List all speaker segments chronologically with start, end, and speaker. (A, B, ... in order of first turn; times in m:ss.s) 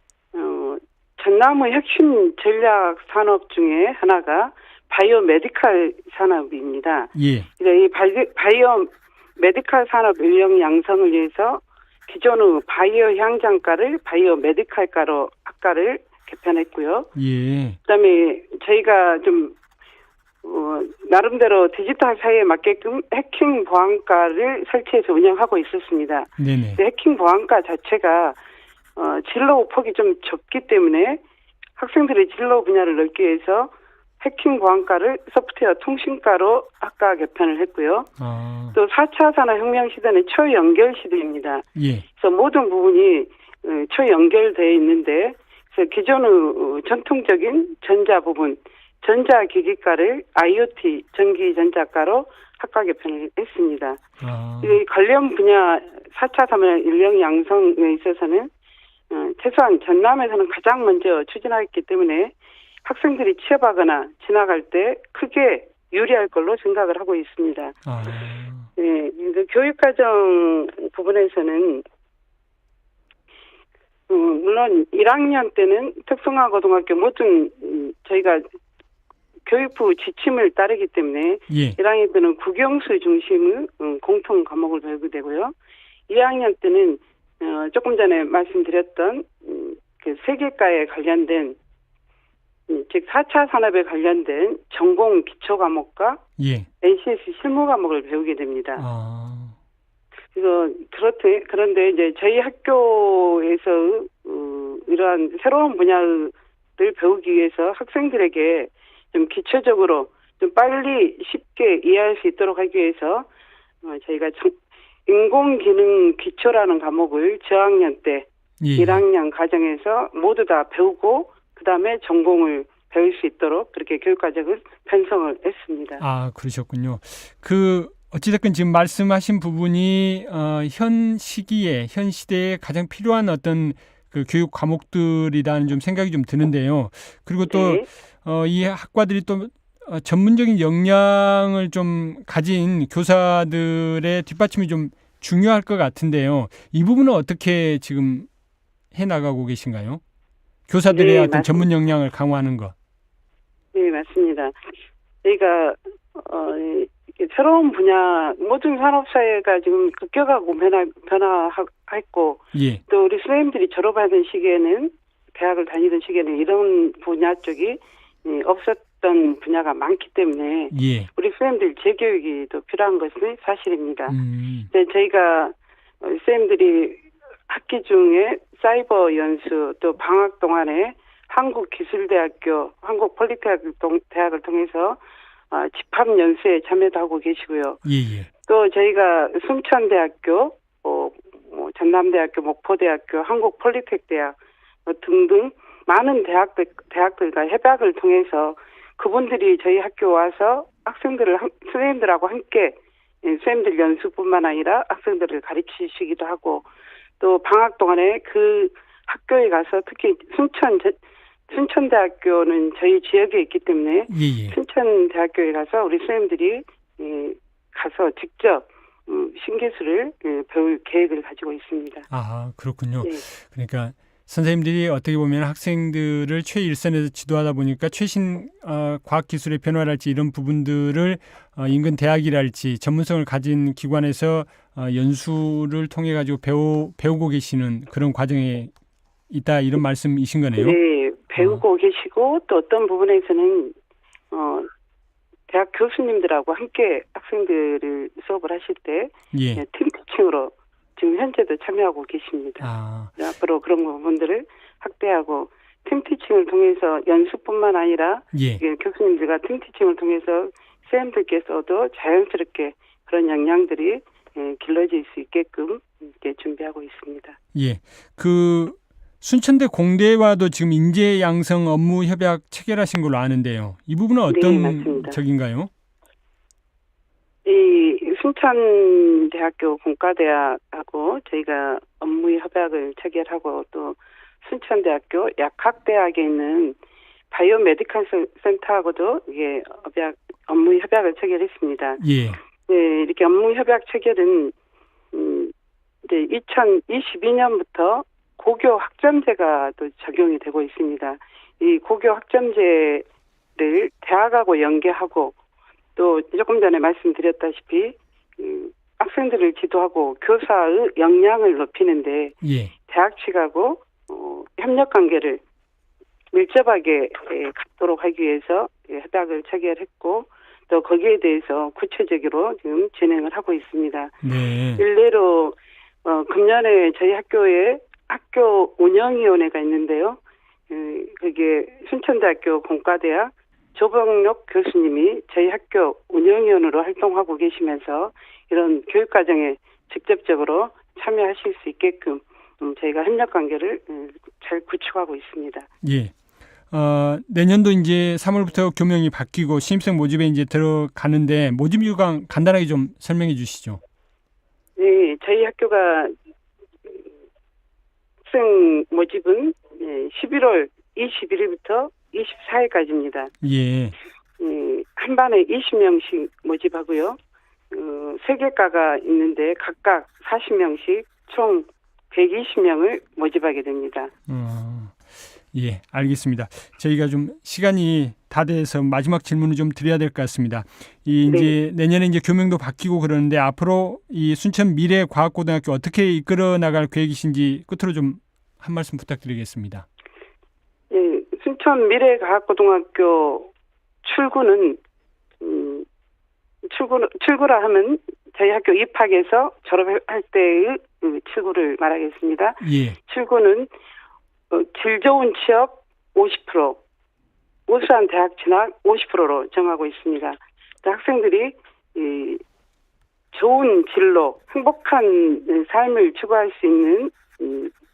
0:00.3-0:17.1 A
0:07.1-0:07.5 B
0:17.1-0:17.8 B
0:17.9-0:19.5 A
0:20.4-0:28.4 A
0:26.4-0:26.8 B
0:29.0-0:31.2 A
0:31.8-0:38.1 A
0:38.2-0:38.8 B
0:38.7-0:41.6 A
0:41.8-0:42.0 B
0:42.2-0:54.0 A
0:54.2-0:54.8 B
0:54.6-0:58.5 A
0:59.1-1:02.3 A
1:02.8-1:07.7 A
1:07.8-1:08.7 B
1:08.8-1:11.8 A
1:14.1-1:18.4 A
1:19.4-1:25.5 A
1:21.5-1:21.8 B
1:26.1-1:31.6 A
1:32.7-1:36.2 A
1:36.4-1:36.7 B
1:36.8-1:38.8 A
1:38.8-1:39.5 B
1:40.3-1:53.3 A
1:53.8-1:54.5 A
1:55.1-2:06.0 A
1:58.6-1:59.0 B
2:06.0-2:28.3 B
2:17.5-2:17.9 A
2:28.9-2:30.0 B
2:30.7-2:32.7 B
2:30.9-2:31.6 A
2:33.7-2:34.5 A
2:35.2-2:54.2 A
2:42.5-2:42.8 B
2:50.7-2:51.1 B
2:54.1-2:54.7 B
2:54.7-3:05.0 A
3:05.5-3:07.8 A
3:07.8-3:08.3 B
3:08.4-3:14.3 A
3:14.8-3:26.6 A
3:27.2-3:31.0 A
3:31.5-3:42.1 A
3:34.1-3:34.6 B
3:42.1-3:58.7 B
3:59.3-4:00.8 B
4:00.6-4:03.7 A
4:01.4-4:01.6 B
4:04.3-4:04.7 A
4:05.5-4:27.4 A
4:09.3-4:09.6 B
4:12.6-4:13.1 B
4:18.3-4:18.6 B
4:27.5-4:35.7 B
4:34.3-4:35.2 A
4:37.4-4:46.8 A
4:47.3-4:52.0 A
4:52.0-4:52.4 B
4:52.7-4:54.5 A
4:55.1-4:55.5 A
4:56.0-5:03.0 A
5:03.6-5:05.3 A
5:06.0-5:12.3 A
5:12.4-5:12.7 B
5:12.9-5:15.4 A
5:16.3-5:24.1 A
5:24.2-5:24.8 B
5:24.8-5:45.7 A
5:45.8-5:46.1 B
5:46.7-5:53.8 B
5:54.8-5:56.1 A
5:58.2-6:03.3 A
6:03.4-6:03.9 B
6:04.4-6:07.2 A
6:07.7-6:14.1 A
6:14.3-6:15.0 B
6:15.5-6:29.8 B
6:21.2-6:21.5 A
6:30.9-6:33.5 A
6:34.0-6:34.8 A
6:35.4-6:35.8 A
6:36.6-6:43.7 A
6:42.6-6:43.0 B
6:44.5-6:46.8 A
6:47.7-6:52.4 A
6:53.3-6:57.7 A